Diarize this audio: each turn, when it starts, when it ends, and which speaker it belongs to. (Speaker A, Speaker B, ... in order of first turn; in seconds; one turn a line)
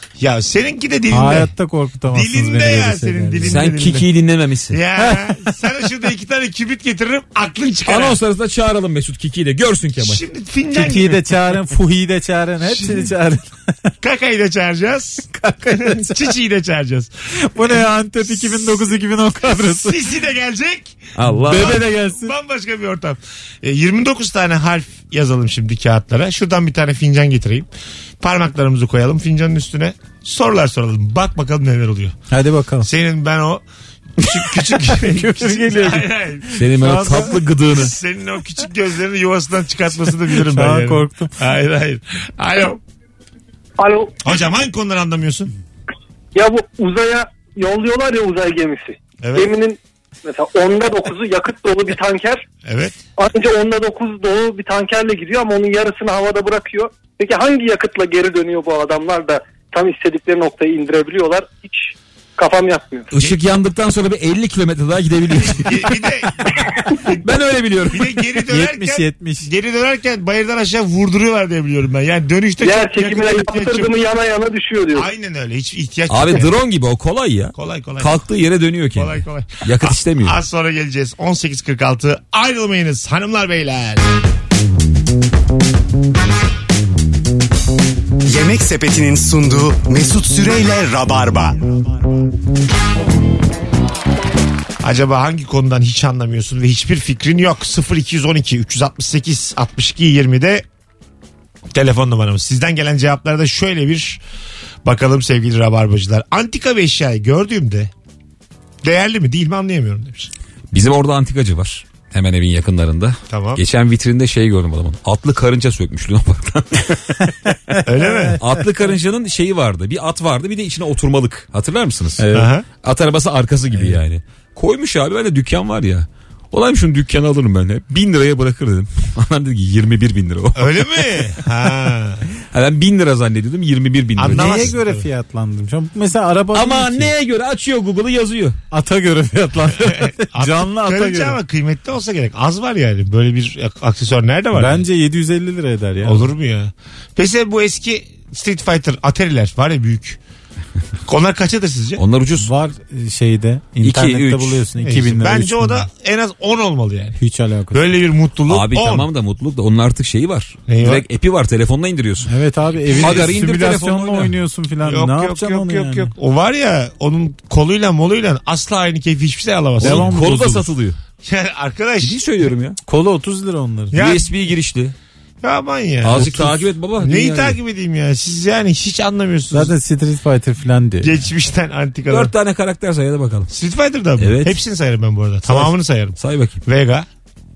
Speaker A: 0.2-1.5
Speaker B: 1.1-3.5
Speaker A: 2.1-4.1
Speaker C: 3.4-4.8
Speaker A: 4.7-8.2
Speaker C: 7.8-10.2
Speaker A: 9.9-11.2
Speaker B: 10.7-13.9
Speaker A: 12.7-13.1
Speaker A: 14.0-18.9
Speaker B: 15.3-16.3
Speaker B: 17.5-20.0
Speaker A: 19.4-27.7
Speaker C: 21.1-21.9
Speaker B: 21.4-22.3
Speaker A: 28.2-32.1
Speaker B: 32.3-32.9
Speaker A: 32.8-33.6
Speaker A: 34.2-42.8
Speaker B: 35.1-36.0
Speaker C: 36.5-37.9
Speaker B: 36.8-37.4
Speaker B: 40.3-41.3
Speaker D: 43.8-44.1
Speaker A: 44.2-45.5
Speaker D: 46.3-52.4
Speaker A: 49.2-49.5
Speaker A: 52.6-53.0
Speaker D: 53.2-63.1
Speaker C: 63.1-65.9
Speaker A: 65.5-66.5
Speaker C: 67.1-68.1
Speaker A: 67.9-73.9
Speaker B: 68.5-69.5
Speaker D: 72.6-75.1
Speaker A: 74.9-76.5
Speaker C: 76.1-80.4
Speaker A: 77.5-78.2
Speaker A: 78.9-84.1
Speaker E: 88.2-91.7
Speaker A: 94.8-100.6
Speaker A: 101.7-104.2
Speaker A: 104.8-107.9
Speaker A: 108.8-110.3
Speaker C: 110.7-117.3
Speaker A: 113.3-113.6
Speaker A: 117.8-118.4
Speaker C: 118.4-122.2
Speaker B: 122.2-122.5
Speaker A: 122.3-122.7
Speaker C: 122.8-131.4
Speaker A: 130.5-132.3
Speaker C: 132.5-134.7
Speaker A: 134.2-135.0
Speaker B: 134.3-137.1
Speaker C: 136.5-138.6
Speaker B: 138.7-141.4
Speaker A: 139.8-144.8
Speaker B: 144.5-146.3
Speaker A: 146.0-150.2
Speaker A: 151.1-152.0
Speaker C: 152.0-152.5
Speaker B: 152.4-155.9
Speaker C: 153.8-154.7
Speaker A: 154.8-157.2
Speaker B: 157.2-157.9
Speaker A: 157.7-159.1
Speaker C: 158.5-162.3
Speaker A: 160.7-161.0
Speaker B: 162.3-166.1
Speaker A: 162.9-163.8
Speaker C: 162.9-164.3
Speaker A: 164.8-170.1
Speaker B: 169.8-170.7
Speaker C: 169.8-171.0
Speaker A: 171.2-172.2
Speaker C: 172.0-172.8
Speaker B: 172.8-173.9
Speaker A: 173.9-174.3
Speaker C: 173.9-174.9
Speaker A: 175.4-179.7
Speaker C: 176.0-177.6
Speaker B: 176.2-176.5
Speaker B: 179.5-181.2
Speaker A: 181.0-182.3
Speaker C: 182.1-183.5
Speaker A: 183.5-187.1
Speaker C: 184.2-184.6
Speaker C: 185.4-186.6